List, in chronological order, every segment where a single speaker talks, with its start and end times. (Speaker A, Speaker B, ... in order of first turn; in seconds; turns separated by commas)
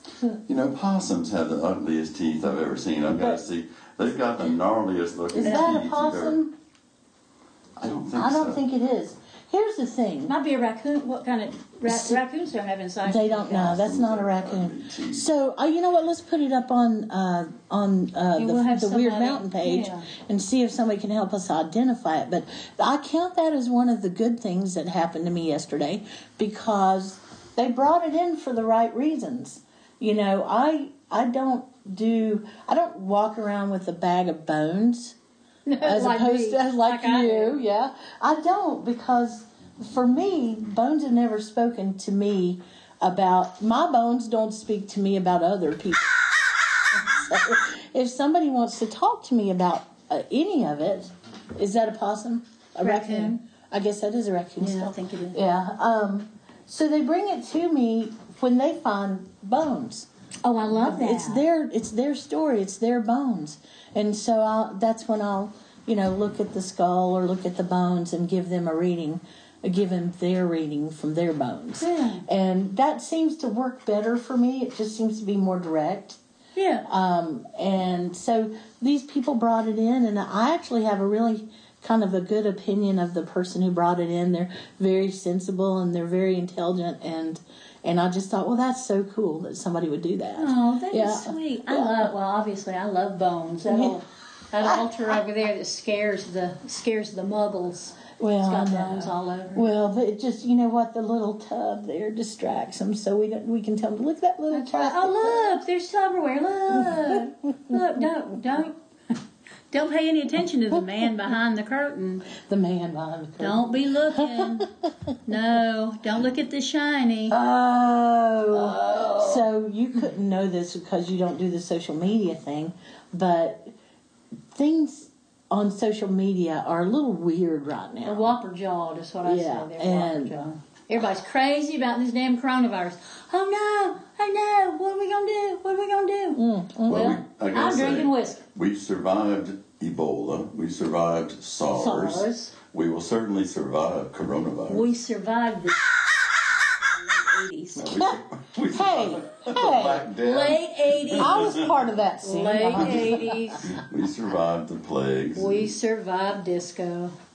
Speaker A: 0.5-6.4, Speaker B: 5.3-6.5, Speaker C: 5.4-5.8, Speaker A: 7.8-8.6, Speaker B: 8.2-10.3, Speaker C: 10.3-13.8, Speaker B: 11.9-12.2, Speaker B: 13.0-35.2, Speaker A: 13.5-15.3, Speaker C: 18.4-20.1, Speaker C: 35.7-37.6, Speaker B: 35.8-46.2, Speaker B: 46.9-60.1, Speaker C: 52.8-53.4, Speaker C: 54.6-55.4, Speaker C: 60.4-61.4, Speaker B: 60.7-76.2, Speaker C: 71.8-72.2, Speaker C: 76.6-76.9, Speaker B: 76.9-92.1, Speaker C: 90.4-99.7, Speaker B: 93.7-94.0, Speaker B: 98.2-105.6, Speaker C: 104.5-108.8, Speaker B: 106.7-107.8, Speaker C: 109.7-112.3, Speaker B: 112.4-114.9, Speaker C: 113.4-114.7, Speaker C: 115.3-117.4, Speaker B: 117.3-123.7, Speaker C: 118.5-119.4, Speaker B: 124.5-128.3, Speaker C: 128.0-138.4, Speaker B: 129.2-130.3, Speaker B: 136.3-137.2, Speaker A: 136.9-144.9, Speaker C: 141.7-142.5, Speaker C: 144.7-145.9, Speaker C: 146.7-148.0, Speaker A: 147.8-151.9, Speaker B: 148.7-150.1, Speaker C: 150.2-151.4, Speaker B: 151.2-153.6, Speaker C: 152.2-153.7, Speaker A: 152.8-155.7, Speaker C: 155.4-157.2